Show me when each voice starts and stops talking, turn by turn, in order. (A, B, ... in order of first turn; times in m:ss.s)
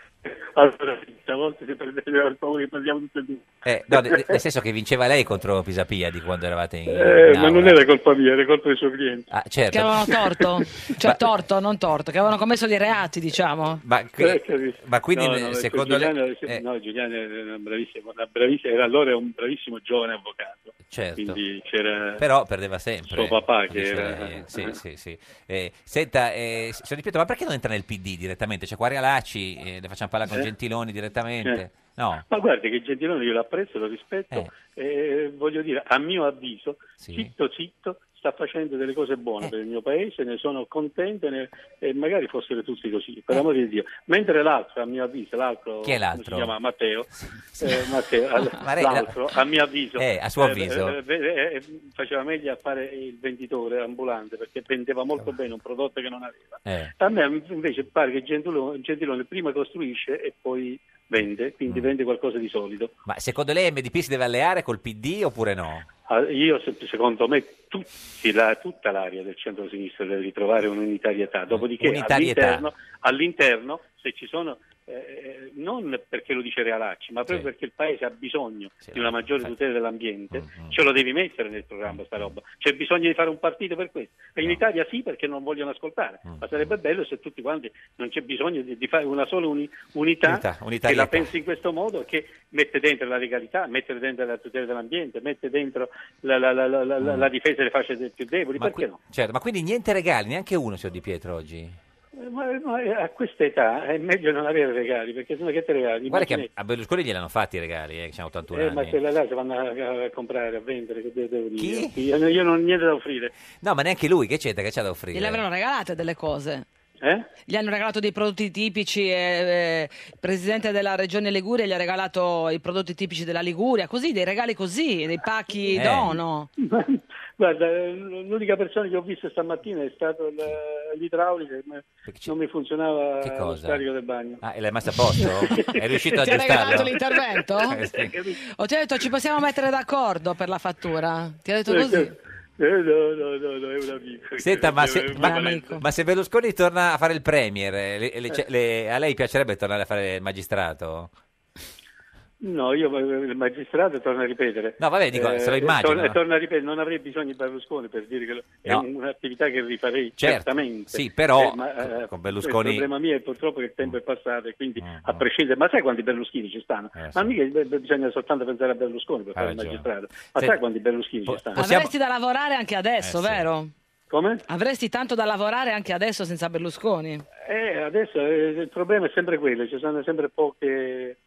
0:00.2-0:04.4 A
0:03.6-0:07.8 B
0:06.9-0:09.2 A
0:09.3-0:10.1 B
0:09.7-0:13.8 C
0:13.8-0:16.6 B
0:14.2-0:22.2 A
0:20.9-0:21.4 B
0:22.2-0:32.2 B
0:23.1-0:24.8 A
0:32.3-0:47.1 A
0:37.0-0:37.3 B
0:45.8-0:46.6 B
0:47.2-0:47.9 B
0:47.6-1:02.9 A
0:48.5-0:49.3 B
0:50.0-0:51.0 B
0:56.6-0:56.9 B
1:03.0-1:05.8 B
1:06.1-1:39.0 A
1:11.5-1:12.7 B
1:18.8-1:19.5 B
1:20.3-1:20.8 B
1:21.9-1:22.3 B
1:26.2-1:26.7 B
1:30.2-1:31.3 B
1:37.0-1:37.3 B
1:38.6-1:41.8 B
1:42.2-1:46.5 A
1:46.1-1:49.0 B
1:48.5-1:53.3 A
1:51.6-1:52.0 B
1:53.6-1:55.4 B
1:55.1-1:56.6 C
1:57.0-1:57.3 A
1:57.4-2:06.5 C
2:05.7-2:06.2 B
2:06.6-2:14.4 A
2:12.0-2:12.4 B
2:13.2-2:13.8 B
2:14.4-2:17.0 B
2:15.2-2:16.8 A
2:16.1-2:17.9 C
2:17.7-2:18.2 B
2:17.9-2:18.3 A
2:18.5-2:22.1 C
2:21.7-2:25.8 A
2:24.4-2:31.1 B
2:25.2-2:25.8 C
2:32.4-2:51.6 A
2:34.8-2:36.2 B
2:40.2-2:42.9 B
2:44.8-2:45.2 B
2:46.9-2:47.3 B
2:49.3-2:50.6 B
2:51.2-2:51.9 B
2:51.6-2:53.7 C
2:53.0-2:53.4 B
2:54.1-2:54.4 A
2:54.5-2:57.2 C
2:57.4-3:01.2 A